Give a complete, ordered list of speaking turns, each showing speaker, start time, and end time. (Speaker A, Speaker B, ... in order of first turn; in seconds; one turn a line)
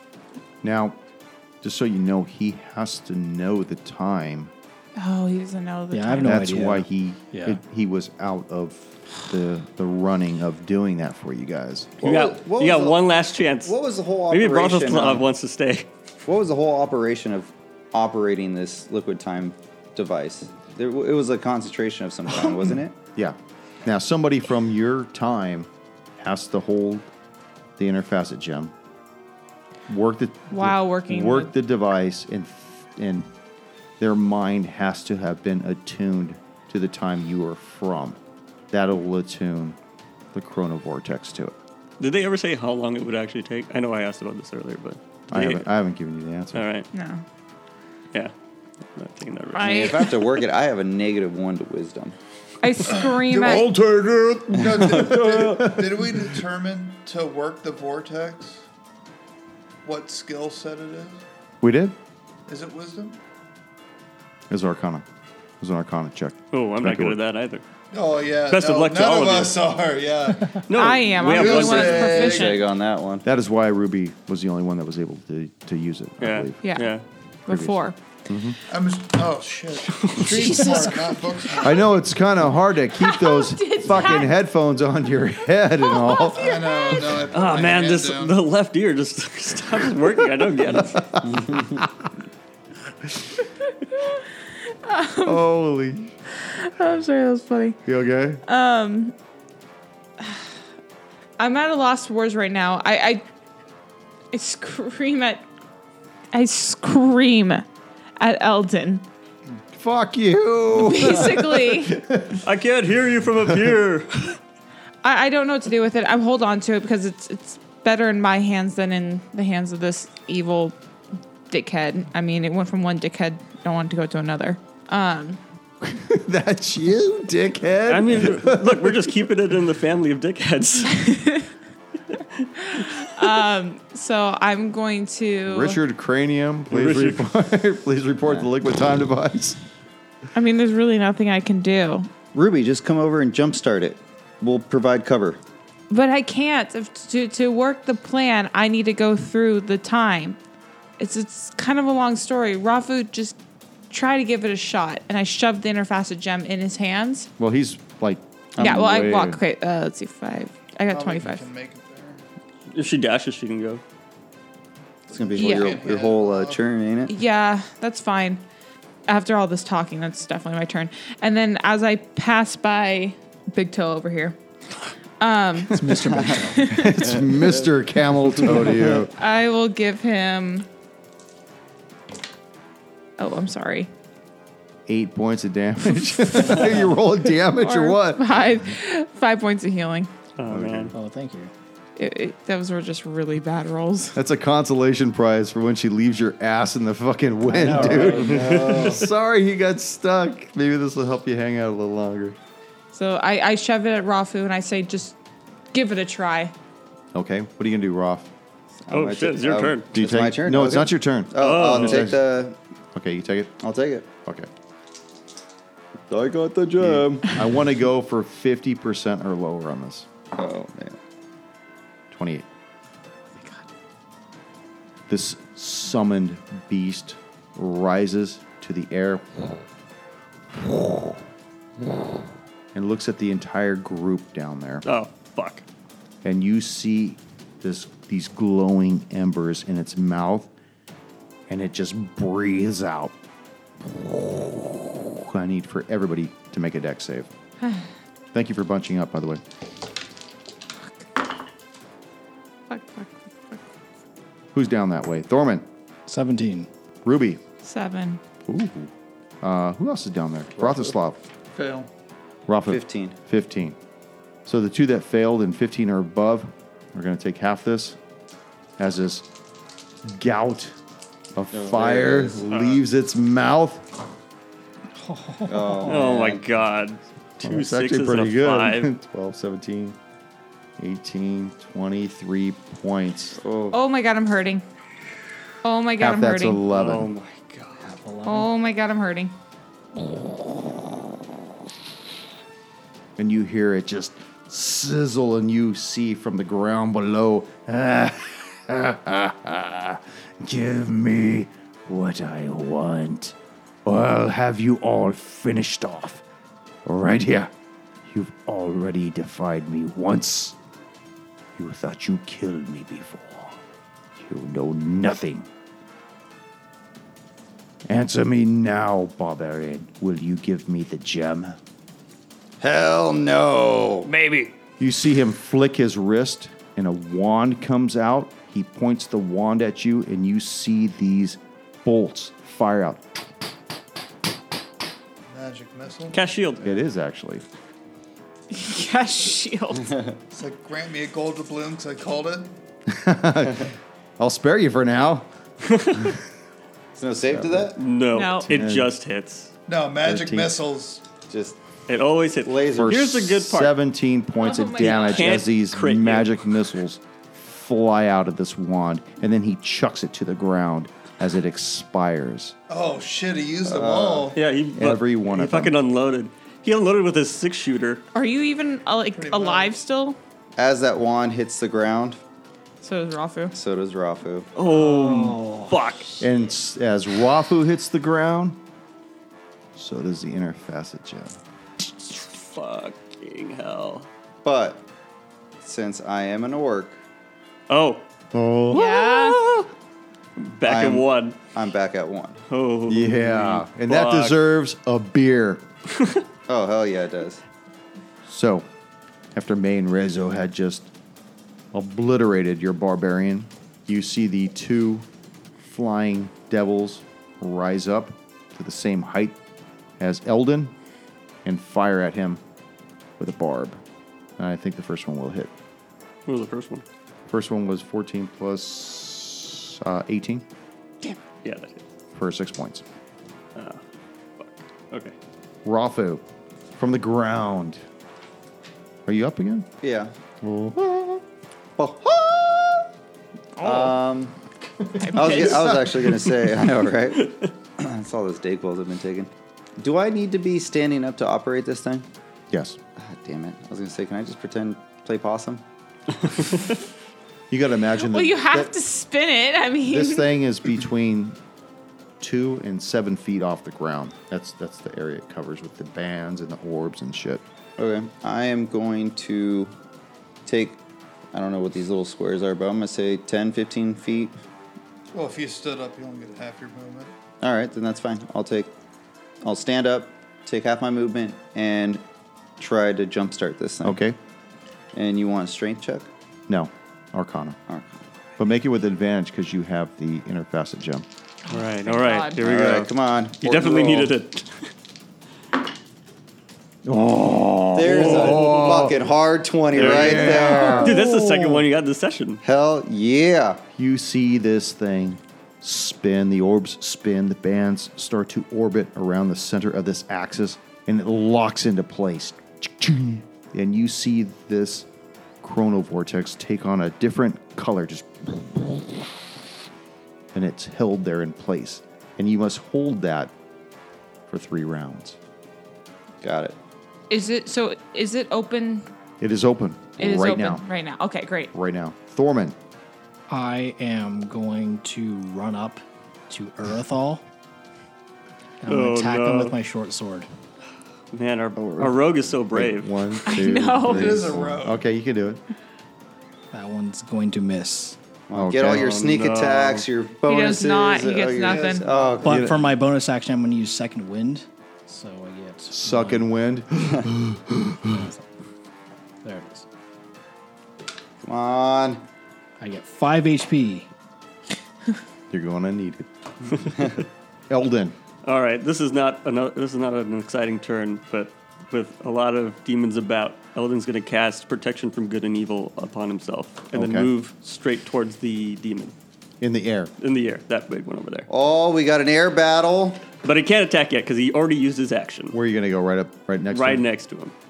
Speaker A: 0.6-1.0
Speaker A: 1.6-4.5
Speaker B: 5.0-6.5
Speaker C: 5.9-7.6
Speaker A: 6.2-12.0
Speaker D: 12.0-13.0
Speaker E: 12.0-13.8
Speaker D: 13.6-15.3
Speaker E: 14.3-15.9
Speaker D: 16.2-22.9
Speaker A: 23.1-27.1
Speaker A: 27.8-28.7
Speaker A: 29.9-33.3
Speaker B: 30.5-31.5
Speaker A: 34.0-38.2
Speaker A: 38.7-39.8
Speaker A: 40.3-41.6
Speaker E: 42.0-45.7
Speaker A: 45.3-46.6
Speaker E: 46.5-46.9
Speaker B: 46.9-47.2
Speaker E: 48.9-50.1
Speaker B: 49.5-50.2
Speaker D: 49.6-52.1
Speaker B: 52.6-53.7
Speaker F: 52.9-53.6
Speaker A: 53.3-56.1
Speaker F: 54.5-58.6
Speaker F: 59.8-61.2
Speaker A: 61.6-62.0
Speaker F: 62.5-63.2
Speaker A: 64.5-65.0
Speaker A: 65.6-67.2
Speaker E: 66.5-67.6
Speaker F: 67.9-70.7
Speaker E: 68.5-69.6
Speaker E: 70.7-72.3
Speaker B: 70.7-72.6
Speaker F: 71.2-72.6
Speaker D: 72.3-73.2
Speaker A: 73.2-76.6
Speaker E: 76.2-77.0
Speaker B: 76.6-78.0
Speaker A: 77.5-78.6
Speaker F: 78.7-81.9
Speaker E: 80.0-80.8
Speaker B: 80.3-81.7
Speaker A: 81.6-86.5
Speaker B: 83.0-84.4
Speaker B: 85.8-87.3
Speaker F: 86.3-88.4
Speaker E: 87.2-91.1
Speaker A: 90.8-92.1
Speaker D: 91.4-91.7
Speaker A: 93.0-93.3
Speaker B: 94.0-95.4
Speaker A: 95.2-96.1
Speaker B: 96.4-97.8
Speaker A: 97.8-98.4
Speaker B: 98.5-99.1
Speaker B: 100.2-100.5
Speaker B: 101.4-103.2
Speaker B: 104.3-105.5
Speaker B: 106.3-107.7
Speaker B: 108.2-109.0
Speaker A: 109.7-112.5
Speaker B: 110.7-112.0
Speaker E: 112.4-114.4
Speaker B: 115.0-120.8
Speaker B: 121.5-125.4
Speaker A: 125.8-129.1
Speaker E: 127.9-131.2
Speaker B: 130.9-131.5
Speaker E: 132.1-133.2
Speaker B: 132.6-135.8
Speaker A: 135.5-139.6
Speaker E: 136.7-137.3
Speaker B: 140.3-142.1
Speaker D: 142.3-145.4
Speaker B: 145.9-150.4
Speaker B: 151.0-153.3
Speaker B: 153.9-157.3
Speaker A: 157.4-159.4
Speaker D: 158.6-158.8
Speaker B: 158.6-161.4
Speaker F: 160.9-162.2
Speaker E: 162.7-163.8
Speaker D: 165.1-167.1
Speaker F: 165.1-166.6
Speaker B: 165.4-165.8
Speaker B: 167.1-168.4
Speaker B: 169.1-174.4
Speaker B: 175.2-177.2
Speaker C: 175.7-176.8
Speaker D: 176.0-176.5
Speaker A: 176.6-179.1
Speaker D: 177.1-177.7
Speaker B: 179.2-180.7
Speaker B: 183.2-183.9
Speaker A: 184.9-188.3
Speaker B: 186.3-186.6
Speaker B: 187.5-190.1
Speaker E: 190.4-190.9
Speaker A: 190.5-190.9
Speaker C: 190.9-191.5
Speaker B: 192.0-194.2
Speaker A: 194.1-202.4
Speaker C: 197.5-198.4
Speaker D: 197.8-199.1
Speaker E: 198.3-199.0
Speaker B: 202.9-205.2
Speaker B: 205.7-206.5
Speaker A: 207.1-208.3
Speaker D: 208.8-212.6
Speaker E: 208.9-209.9
Speaker A: 209.9-212.2
Speaker E: 211.4-212.1
Speaker A: 212.9-213.5
Speaker D: 213.6-214.1
Speaker D: 216.1-217.4
Speaker A: 216.8-220.1
Speaker D: 220.3-221.0
Speaker A: 222.1-222.5
Speaker B: 223.4-223.6
Speaker A: 225.1-229.5
Speaker A: 230.5-231.2
Speaker A: 232.7-234.8
Speaker E: 234.8-235.6
Speaker A: 236.2-240.5
Speaker A: 241.5-243.1
Speaker A: 243.8-247.3
Speaker A: 248.3-249.4
Speaker B: 252.7-253.6
Speaker A: 254.5-255.7
Speaker C: 256.1-256.7
Speaker A: 257.0-257.4
Speaker B: 257.6-258.2
Speaker A: 258.4-261.2
Speaker D: 260.6-260.9
Speaker F: 261.5-261.9
Speaker A: 262.5-263.8
Speaker D: 262.7-263.1
Speaker A: 264.4-268.0
Speaker A: 268.8-269.3
Speaker A: 270.0-270.8
Speaker A: 271.3-273.9
Speaker D: 271.5-272.4
Speaker E: 272.5-272.8
Speaker C: 275.0-275.9
Speaker D: 275.4-276.4
Speaker E: 275.9-278.9
Speaker A: 277.4-280.0
Speaker A: 280.8-283.4
Speaker D: 283.4-283.8
Speaker B: 283.7-284.6
Speaker B: 285.6-286.6
Speaker A: 286.0-287.1
Speaker E: 286.7-287.9
Speaker C: 287.8-288.5
Speaker B: 288.2-289.3
Speaker A: 293.2-306.2
Speaker A: 306.8-307.5
Speaker A: 308.0-310.6
Speaker A: 311.6-313.6
Speaker A: 314.2-315.5
Speaker A: 317.9-321.6
Speaker D: 322.6-324.1
Speaker A: 324.8-333.0
Speaker F: 335.3-336.7
Speaker E: 336.1-336.6
Speaker A: 336.6-337.4
Speaker B: 338.5-339.9
Speaker F: 340.3-342.5
Speaker A: 342.9-345.3
Speaker E: 345.6-346.1
Speaker D: 346.9-347.8
Speaker A: 347.3-347.7
Speaker E: 347.8-349.5
Speaker B: 348.1-348.5
Speaker A: 348.5-348.9
Speaker F: 349.7-351.0
Speaker A: 350.0-350.5
Speaker D: 351.3-351.6
Speaker E: 351.9-353.7
Speaker D: 352.4-353.0
Speaker A: 352.8-362.5
Speaker B: 354.4-355.4
Speaker E: 354.8-356.4
Speaker F: 362.7-364.4
Speaker D: 363.6-364.4
Speaker E: 364.3-368.0
Speaker A: 364.7-365.7
Speaker B: 368.1-370.2
Speaker F: 369.1-369.8
Speaker D: 370.6-372.2
Speaker B: 372.8-373.5
Speaker D: 373.5-374.5
Speaker E: 374.6-376.2
Speaker C: 374.6-375.8
Speaker A: 376.2-378.6
Speaker A: 379.7-381.3
Speaker E: 382.0-384.1
Speaker D: 384.4-384.8
Speaker D: 385.6-387.0
Speaker E: 387.7-388.0
Speaker A: 388.3-388.9
Speaker B: 388.7-389.4
Speaker E: 388.8-389.7
Speaker E: 390.4-391.4
Speaker D: 390.6-392.4
Speaker E: 392.5-394.4
Speaker A: 392.9-395.6
Speaker E: 395.9-396.2
Speaker D: 396.5-397.4
Speaker A: 398.2-398.7
Speaker A: 399.3-400.9
Speaker A: 401.7-405.1
Speaker A: 405.7-409.4
Speaker A: 410.0-410.7
Speaker A: 411.4-412.4
Speaker A: 413.2-413.8
Speaker A: 414.4-415.5
Speaker E: 416.2-416.8
Speaker A: 417.3-420.4
Speaker E: 421.4-421.8
Speaker A: 422.1-422.8
Speaker E: 423.5-423.8
Speaker E: 424.4-425.1
Speaker A: 425.6-426.2
Speaker A: 426.8-427.8
Speaker A: 429.1-429.7
Speaker D: 429.8-430.1
Speaker A: 430.4-431.2
Speaker D: 431.8-432.9
Speaker B: 433.6-434.0
Speaker D: 433.6-434.4
Speaker B: 435.0-435.8
Speaker D: 435.1-442.1
Speaker A: 435.2-435.8
Speaker E: 437.2-437.5
Speaker A: 442.5-442.8
Speaker D: 442.9-445.6
Speaker E: 446.3-446.7
Speaker A: 447.5-448.7
Speaker B: 448.0-450.2
Speaker A: 449.9-451.4
Speaker A: 452.2-457.4
Speaker D: 457.8-459.7
Speaker D: 460.4-460.8
Speaker D: 461.3-464.4
Speaker F: 465.1-467.1
Speaker D: 467.4-468.7
Speaker D: 469.4-472.0
Speaker D: 472.6-474.0
Speaker A: 473.8-474.2
Speaker D: 474.9-476.1
Speaker A: 476.5-477.6
Speaker D: 477.7-478.0
Speaker A: 478.4-481.0
Speaker B: 481.5-482.4
Speaker E: 481.5-484.7
Speaker D: 482.4-484.1
Speaker A: 486.8-489.0
Speaker D: 487.7-490.9
Speaker A: 489.7-491.5
Speaker E: 489.7-492.4
Speaker D: 492.4-493.6
Speaker A: 493.7-504.9
Speaker A: 505.4-509.0
Speaker A: 510.3-513.3
Speaker A: 514.3-515.2
Speaker D: 516.2-516.6
Speaker B: 517.1-518.9
Speaker A: 519.2-520.6
Speaker B: 520.0-521.5
Speaker A: 521.5-522.5
Speaker C: 523.3-527.2
Speaker C: 528.6-530.3
Speaker E: 528.6-529.5
Speaker E: 531.1-533.2
Speaker A: 531.5-535.4
Speaker B: 533.2-534.3
Speaker F: 533.9-534.8
Speaker C: 536.5-538.0
Speaker D: 538.3-542.4
Speaker A: 538.3-538.9
Speaker E: 538.6-539.9
Speaker B: 540.2-541.9
Speaker F: 541.4-542.3
Speaker C: 542.2-546.2
Speaker A: 542.2-542.6
Speaker A: 545.7-548.0
Speaker C: 547.8-548.2
Speaker C: 549.2-549.6
Speaker D: 551.2-552.0
Speaker C: 552.6-553.9
Speaker A: 555.3-556.1
Speaker A: 557.5-557.9
Speaker E: 558.2-568.9
Speaker A: 566.7-567.1
Speaker A: 569.4-569.9
Speaker E: 570.0-571.3
Speaker D: 571.3-573.0
Speaker E: 573.2-575.4
Speaker A: 575.3-576.8
Speaker E: 576.5-577.3